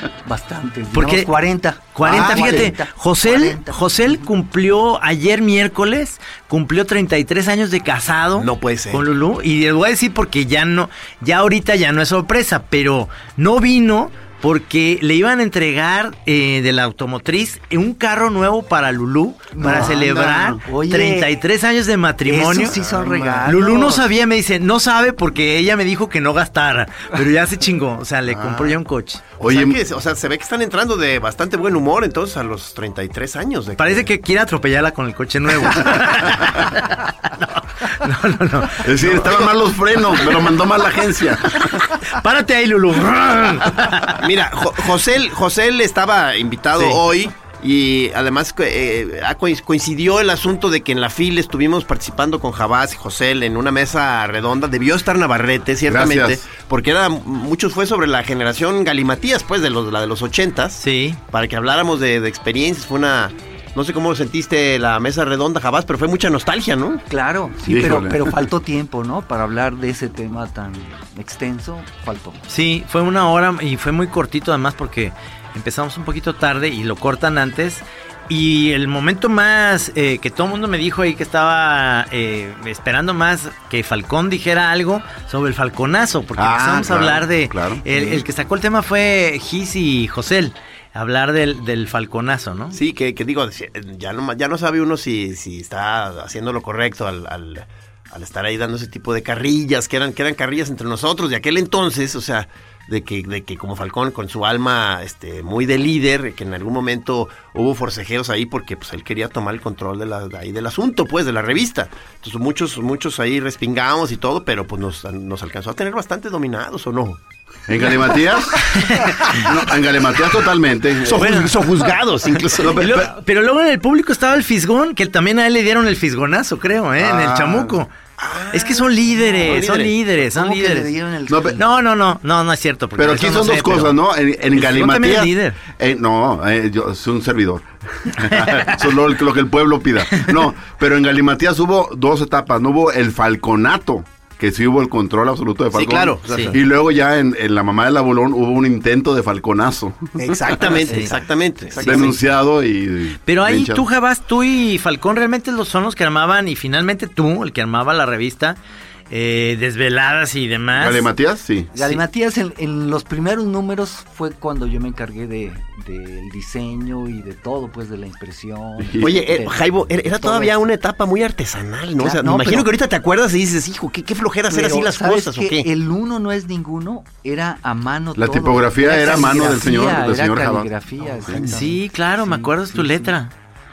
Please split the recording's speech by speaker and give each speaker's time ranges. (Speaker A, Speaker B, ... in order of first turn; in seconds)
Speaker A: 0.2-4.3, 19.5-21.3, 22.2-24.1, 67.1-72.4, 130.2-131.6, 161.7-170.6, 172.0-172.7, 174.5-183.1
Speaker B: 0.9-1.3, 1.9-22.8, 23.4-29.3, 33.8-39.2, 41.5-44.2, 60.8-61.2, 72.5-92.8, 118.7-119.5, 121.1-121.6, 122.6-127.9, 128.5-130.9, 131.6-134.0, 134.5-135.6, 138.3-138.7, 146.3-146.5, 150.8-151.1, 151.8-152.1, 153.3-158.6, 159.1-161.1, 181.4-183.3
Speaker C: 2.1-2.7, 8.3-9.0, 22.8-23.6, 29.4-34.1, 39.0-39.5, 44.1-67.0, 92.7-117.2, 121.0-123.1, 128.2-129.9, 145.7-146.6, 150.2-152.2, 169.0-175.7
Speaker D: 19.6-20.4, 28.2-28.8, 29.4-29.8, 38.8-41.8, 55.8-56.5, 67.7-68.3, 86.3-87.9, 117.7-121.5, 122.6-123.1, 127.0-127.8, 131.3-131.6, 133.0-150.8, 151.8-153.8, 160.7-161.7, 168.8-169.2, 178.2-181.4